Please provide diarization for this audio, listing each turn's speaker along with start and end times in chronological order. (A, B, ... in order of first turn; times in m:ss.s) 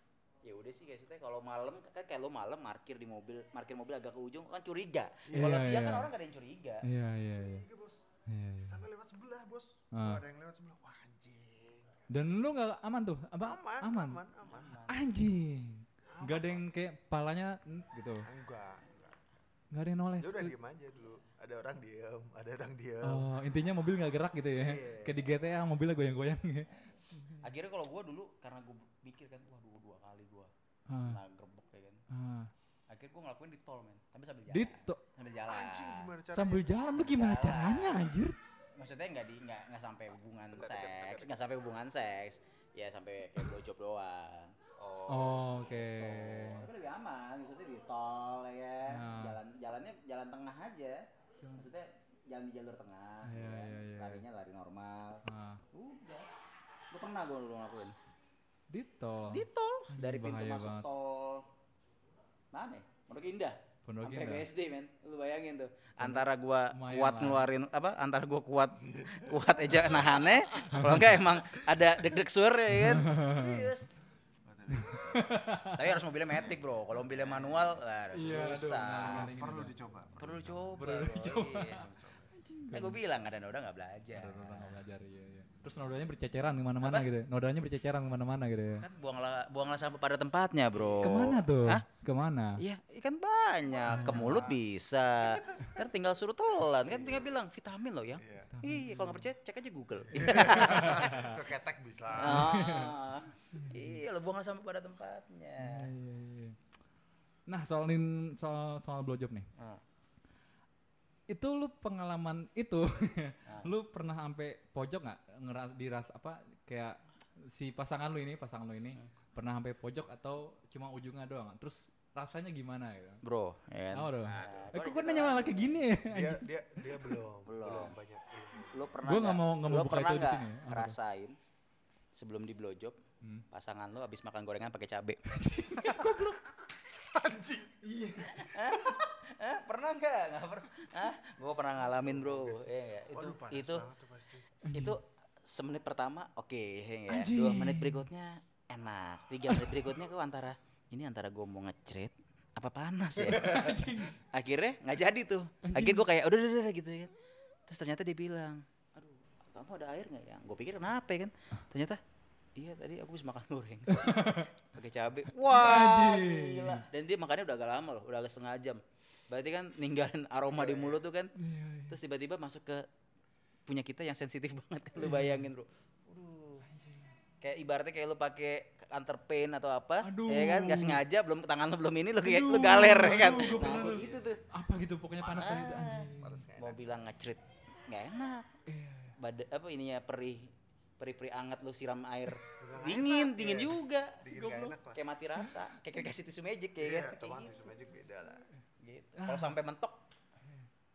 0:00.4-0:06.9 A
0:05.3-0:05.6 B
0:05.3-0:06.1 C
0:06.8-0:07.6 C
0:07.3-0:08.1 B
0:08.3-0:08.8 C
0:08.6-0:12.1 B
0:09.9-0:10.2 C
0:12.1-0:14.2 C
0:13.4-0:14.8 B
0:14.5-0:15.1 A
0:14.9-0:18.3 C
0:16.0-0:16.7 B
0:18.2-0:19.2 B
0:19.7-0:20.5 C
0:20.2-0:23.3 B
0:23.0-0:27.4 C
0:24.6-0:25.3 B
0:27.4-0:30.5 A
0:30.9-0:31.2 C
0:31.0-0:32.0 A
0:32.1-0:32.5 C
0:32.9-0:36.1 A
0:34.5-0:35.0 C
0:35.4-0:36.9 B
0:36.3-0:38.4 C
0:36.9-0:38.1 A
0:38.8-0:44.6 A
0:40.5-0:41.5 B
0:44.8-0:45.6 B
0:45.1-0:46.7 C
0:45.7-0:51.0 A
0:48.9-0:49.4 C
0:51.4-0:51.7 C
0:51.6-0:56.3 A
0:53.2-0:54.2 C
0:55.3-0:55.6 C
0:56.9-0:58.0 A
0:58.7-1:00.9 C
0:59.3-1:01.5 A
1:02.5-1:13.9 A
1:03.9-1:04.5 C
1:06.0-1:07.5 C
1:08.8-1:10.9 B
1:10.7-1:11.2 C
1:11.5-1:11.8 B
1:12.7-1:13.7 C
1:14.4-1:15.3 B
1:14.7-1:16.0 C
1:15.7-1:19.3 A
1:16.4-1:17.8 B
1:18.1-1:19.7 C
1:19.0-1:22.3 B
1:20.2-1:21.9 A
1:20.4-1:23.0 C
1:22.7-1:24.8 A
1:24.1-1:28.9 C
1:26.8-1:27.1 A
1:28.8-1:31.8 A
1:30.7-1:31.5 B
1:31.0-1:32.6 C
1:32.6-1:41.3 A
1:33.7-1:34.6 B
1:33.9-1:34.5 C
1:35.2-1:35.8 B
1:36.8-1:37.4 B
1:38.2-1:38.5 B
1:38.5-1:39.3 C
1:40.1-1:42.8 B
1:40.6-1:41.4 C
1:42.2-1:43.0 C
1:42.2-1:45.9 A
1:43.5-1:44.0 C
1:45.6-1:46.6 C
1:47.5-1:49.5 C
1:49.6-1:49.8 A
1:51.3-2:03.2 C
2:03.2-2:05.8 A
2:03.9-2:06.4 C
2:04.2-2:04.8 B
2:06.1-2:09.0 B
2:07.5-2:08.0 A
2:08.6-2:11.4 A
2:09.0-2:11.0 C
2:12.1-2:13.0 A
2:13.5-2:16.2 A
2:15.4-2:16.5 C
2:16.9-2:19.1 B
2:17.8-2:18.4 C
2:18.3-2:23.9 A
2:21.8-2:24.5 B
2:24.6-2:25.0 C
2:24.7-2:33.7 A
2:27.1-2:28.1 C
2:33.2-2:34.2 C
2:33.4-2:33.7 B
2:34.2-2:37.1 A
2:35.7-2:36.0 C
2:37.7-2:42.0 A
2:42.6-2:51.4 A
2:43.9-2:44.5 C
2:45.4-2:46.8 C
2:50.5-2:51.0 B
2:51.4-2:52.0 C
2:51.9-2:52.9 A
2:53.7-2:56.6 A
2:55.0-2:55.5 C
2:56.7-2:57.1 C
2:57.4-3:04.4 A
3:00.0-3:01.0 C
3:02.2-3:06.4 C
3:03.4-3:04.4 B
3:05.3-3:08.5 A
3:05.3-3:07.0 B
3:08.7-3:09.1 C
3:09.2-3:17.6 A
3:12.6-3:15.0 B
3:16.8-3:18.5 B
3:18.8-3:20.0 A
3:19.2-3:19.6 C